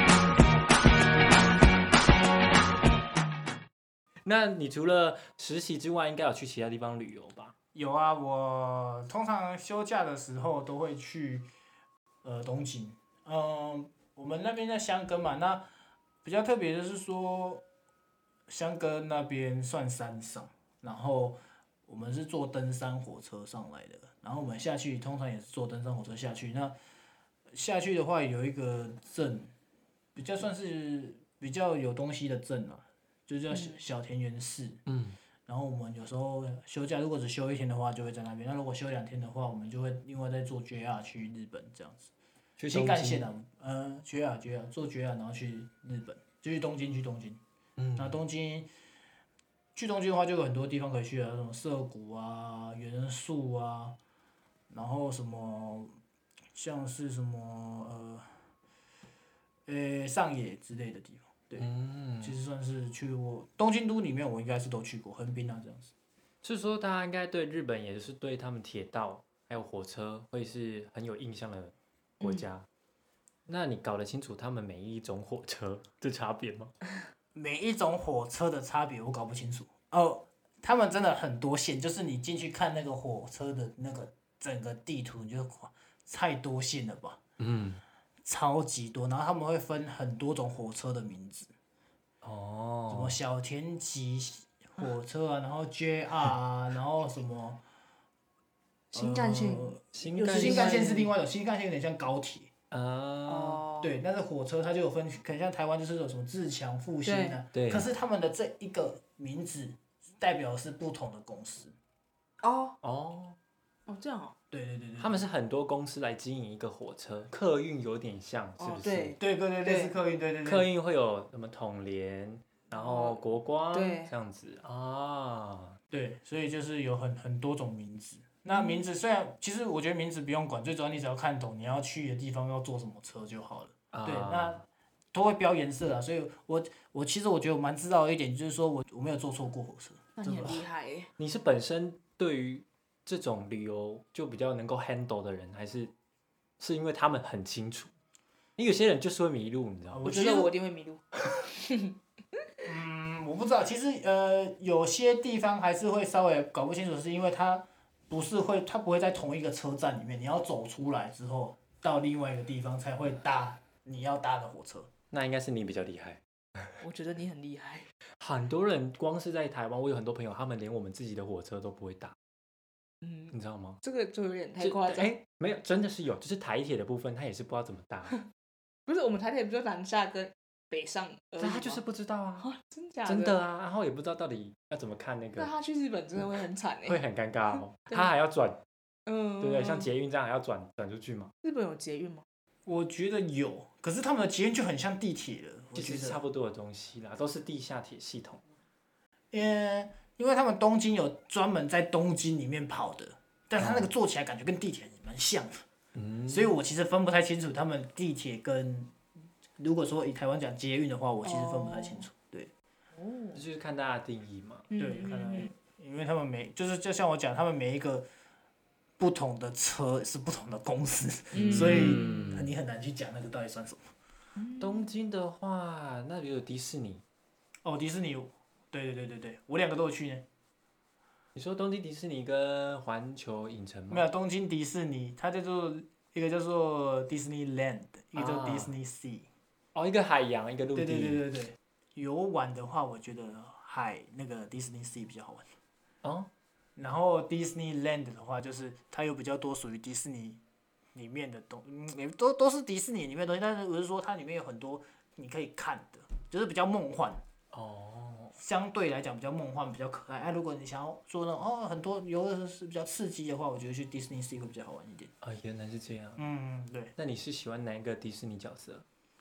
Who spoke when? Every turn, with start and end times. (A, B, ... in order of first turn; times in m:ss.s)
0:04.2-0:07.5 A
0:07.8-0:11.5 B
0:12.2-0:15.6 B
0:16.2-0:17.6 B
0:18.5-0:26.8 B
0:27.5-0:29.5 B
0:30.2-0:34.8 B
0:33.5-0:33.8 C
0:34.9-0:35.2 A
0:35.5-0:42.1 B
0:42.6-0:43.3 A
0:42.7-0:47.4 B
0:47.8-0:48.1 A
0:48.0-0:48.7 B
0:49.8-0:54.0 B
0:54.7-0:56.0 B
0:56.5-0:58.3 B
0:59.7-1:01.7 B
1:01.6-1:02.4 A
1:02.2-1:05.9 B
1:06.4-1:12.7 A
1:13.5-1:16.7 A
1:17.3-1:27.2 B
1:27.4-1:27.8 A
1:28.2-1:31.5 B
1:32.2-1:33.2 A
1:32.9-1:37.6 B
1:38.9-1:41.1 C
1:39.0-1:42.5 B
1:39.9-1:40.8 A
1:42.7-1:43.6 A
1:43.3-1:43.9 C
1:43.8-1:51.8 B
1:47.0-1:47.4 C
1:47.5-1:47.9 A
1:52.4-1:52.8 C
1:52.8-1:53.4 A
1:53.9-1:54.4 C
1:54.5-1:55.3 B
1:55.0-1:59.2 A
1:58.6-1:59.9 C
1:59.2-2:00.7 B
2:00.4-2:05.8 A
2:02.7-2:03.2 C
2:03.7-2:04.1 C
2:05.9-2:14.6 B
2:08.5-2:08.8 C
2:13.9-2:14.6 A
2:15.1-2:20.6 B
2:20.2-2:21.1 C
2:21.2-2:25.9 A
2:26.6-2:27.9 A
2:28.6-2:30.1 A
2:29.9-2:30.5 B
2:30.0-2:32.0 C
2:32.6-2:44.9 B
2:45.1-2:46.8 A
2:46.8-2:47.9 C
2:48.2-2:52.2 A
2:53.0-2:53.3 C
2:53.3-2:53.8 A
2:53.8-2:55.1 C
2:54.6-2:58.2 A
2:58.9-3:01.8 C
3:01.4-3:02.5 A
3:02.4-3:03.4 C
3:03.1-3:05.5 A
3:05.4-3:07.0 C
3:06.9-3:08.6 A
3:09.1-3:09.9 C
3:09.4-3:11.3 A
3:11.4-3:12.2 C
3:12.7-3:16.2 B
3:15.8-3:18.4 A
3:19.3-3:25.6 B
3:23.6-3:23.9 A
3:26.0-3:26.5 A
3:26.3-3:28.9 B
3:29.6-3:32.5 B
3:31.2-3:32.1 C
3:33.0-3:33.4 C
3:33.3-3:34.7 A
3:34.7-3:35.5 C
3:34.8-3:38.1 B
3:39.0-3:43.8 B
3:41.3-3:42.5 A
3:44.4-3:44.9 C
3:44.6-3:47.0 A
3:47.6-3:50.3 B
3:51.4-3:54.1 A
3:53.9-3:59.3 B
3:58.2-3:58.7 A
3:59.8-4:01.2 A
4:00.8-4:05.5 B
4:06.0-4:06.3 A
4:06.8-4:10.4 B
4:10.9-4:17.2 B
4:17.5-4:18.3 A
4:18.4-4:25.1 B
4:25.2-4:26.2 A
4:26.2-4:26.9 B
4:27.0-4:28.8 A